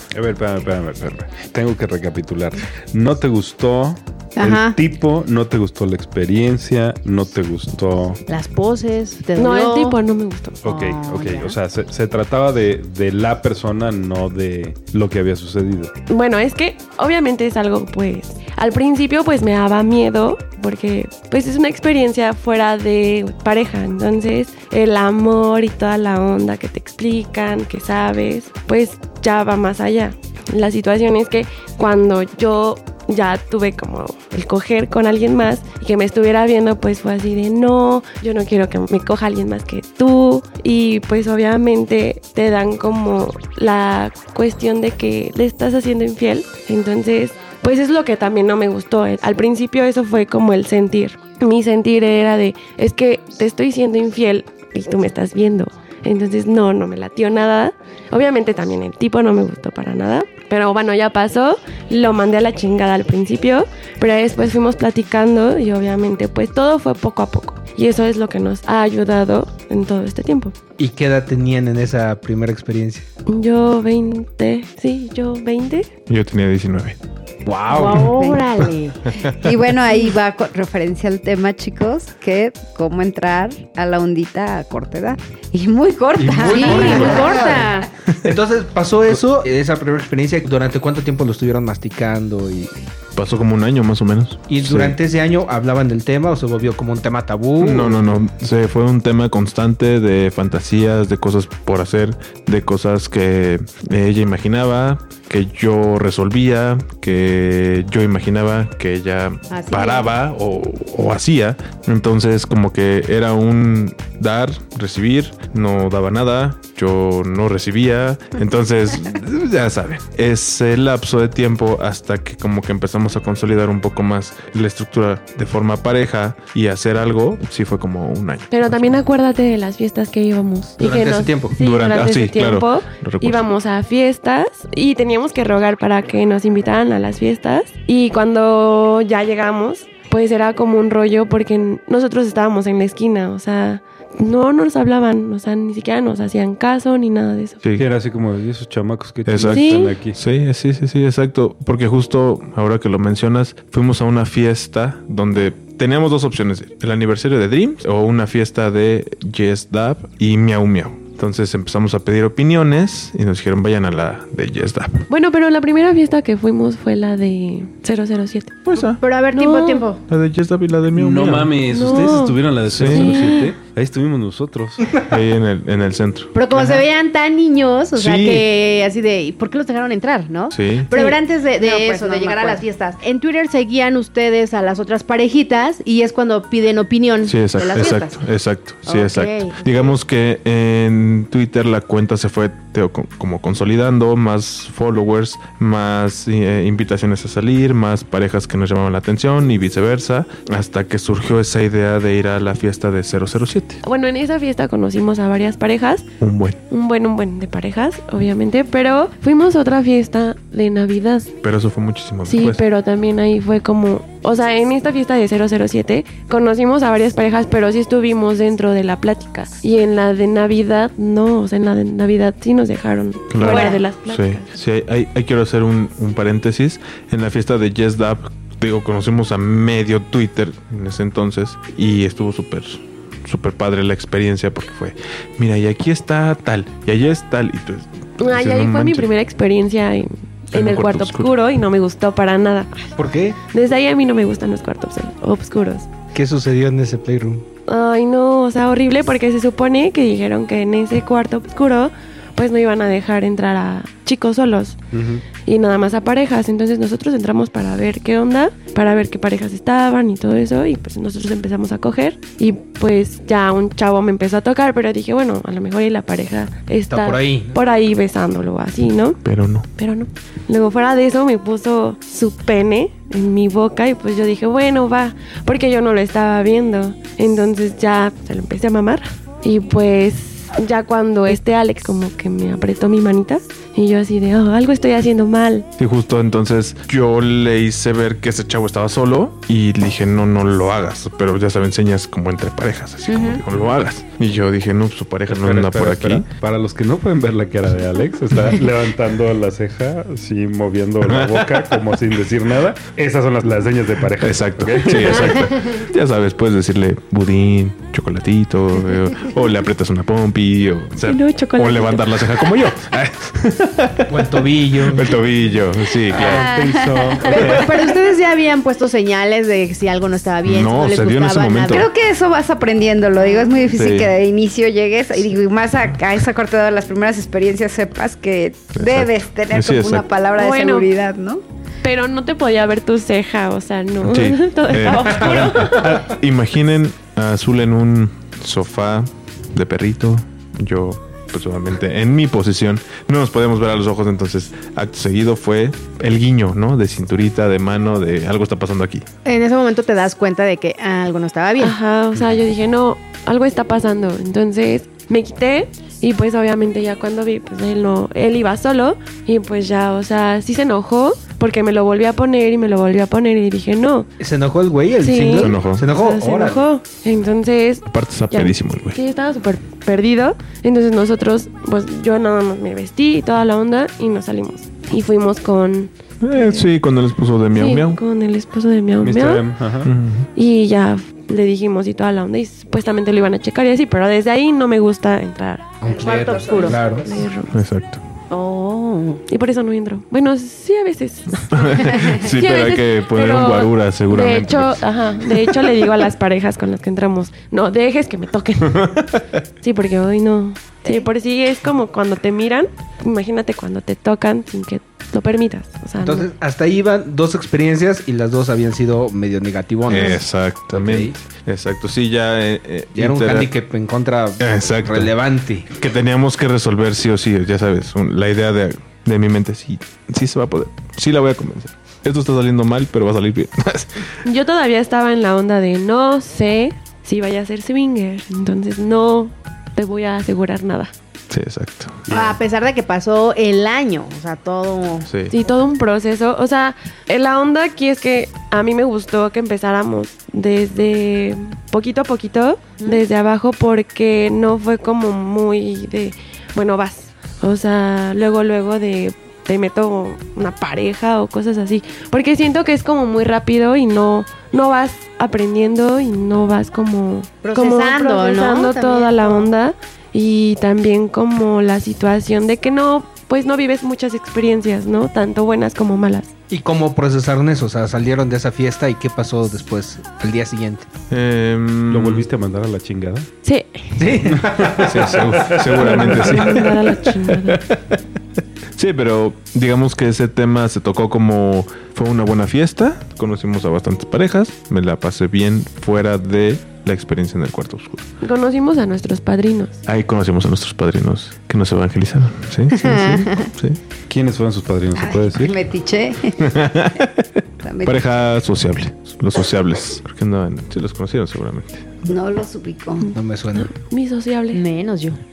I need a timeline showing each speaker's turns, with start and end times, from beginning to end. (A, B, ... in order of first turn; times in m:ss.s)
0:00.1-0:08.2 A
0:04.4-0:04.8 B
0:08.3-0:10.0 B
0:09.4-0:10.6 C
0:10.6-0:15.9 A
0:10.6-0:11.6 B
0:16.1-1:10.6 C
1:10.8-1:13.1 D
1:13.3-1:15.9 C
1:16.1-1:17.0 E
1:17.4-1:18.1 D
1:17.7-1:19.0 B
1:18.0-1:18.5 F
1:19.3-1:27.7 F
1:26.2-1:32.8 D
1:26.5-1:27.9 B
1:33.2-1:35.0 E
1:34.5-1:38.1 D
1:37.6-2:08.9 E
1:49.5-1:50.1 B
2:08.5-2:27.6 C
2:10.8-2:11.6 D
2:11.6-2:13.5 E
2:27.8-2:30.2 A
2:29.3-2:45.1 E
2:29.5-2:30.0 C
2:45.1-2:48.6 C
2:48.7-2:49.0 E
2:48.7-2:50.0 B
2:49.3-2:49.9 C
2:50.1-2:51.7 E
2:50.9-2:54.9 A
2:51.7-2:53.5 C
2:52.6-2:53.3 E
2:55.0-2:56.4 E
2:56.3-3:08.2 B
2:58.0-2:58.5 E
3:00.5-3:01.2 E
3:01.6-3:02.5 F
3:07.2-3:23.8 E
3:08.9-3:10.0 B
3:23.8-3:26.1 C
3:26.2-3:26.6 E
3:26.7-3:31.3 C
3:31.4-3:32.6 E
3:32.3-3:44.5 C
3:43.3-3:59.1 E
3:43.4-3:43.8 B
3:58.2-4:02.9 C
4:00.5-4:01.3 E
4:03.0-4:03.4 D
4:03.5-4:05.9 C
4:06.1-4:07.4 D
4:07.7-4:14.8 C
4:14.9-4:15.2 A
4:15.4-4:29.2 C
4:26.9-4:27.6 D
4:29.2-4:29.7 E
4:29.8-4:45.7 C
4:45.8-4:56.3 E
4:53.1-4:53.4 F
4:55.3-5:05.5 A
5:01.0-5:01.8 E
5:04.2-5:16.5 E
5:11.0-5:12.3 C
5:14.1-5:15.2 D
5:16.1-5:17.6 A
5:16.1-5:16.4 D
5:16.2-5:18.0 F
5:17.3-5:21.9 B
5:20.5-5:21.9 E
5:21.7-5:31.4 F
5:23.7-5:24.1 E
5:28.8-5:30.1 E
5:30.4-5:30.9 C
5:31.8-5:36.1 C
5:34.0-5:49.1 E
5:49.3-5:51.8 B
5:51.6-6:04.1 C
6:04.2-6:06.6 D
6:05.0-6:16.7 C
6:05.4-6:05.9 E
6:07.9-6:09.0 E
6:16.2-6:18.0 E
6:17.6-6:19.5 C
6:19.0-6:19.9 A
6:19.8-6:20.3 E
6:20.4-6:25.8 C
6:25.8-6:27.1 D
6:25.9-6:26.8 F
6:26.0-6:26.8 B
6:26.8-6:27.5 C
6:27.5-6:28.0 E
6:28.3-6:29.2 B
6:29.3-6:39.0 C
6:31.5-6:35.7 E
6:39.6-6:46.3 C
6:46.0-6:51.2 D
6:49.9-6:53.5 E
6:49.9-6:50.2 C
6:53.0-6:55.7 D
6:54.4-6:55.1 E
6:55.7-7:04.1 E
7:04.2-7:10.9 C
7:11.3-7:12.3 E
7:12.1-7:15.1 B
7:15.1-7:15.4 E
7:15.3-7:46.3 C
7:37.4-7:39.5 B
7:46.5-7:50.9 D
7:51.1-7:52.3 E
7:51.9-7:53.3 A
7:53.4-7:54.1 C
7:54.0-7:55.5 D
7:54.3-7:56.6 A
7:54.8-7:56.8 E
7:55.7-7:57.6 C
7:57.6-7:58.0 E
7:58.8-8:08.1 E
8:08.2-8:09.8 C
8:09.9-8:13.8 E
8:14.1-8:15.6 A
8:15.0-8:16.6 F
8:16.4-8:17.3 E
8:17.6-8:18.1 F
8:17.8-8:21.9 E
8:22.0-8:23.1 F
8:23.0-8:24.6 C
8:23.1-8:23.7 D
8:24.5-8:25.2 B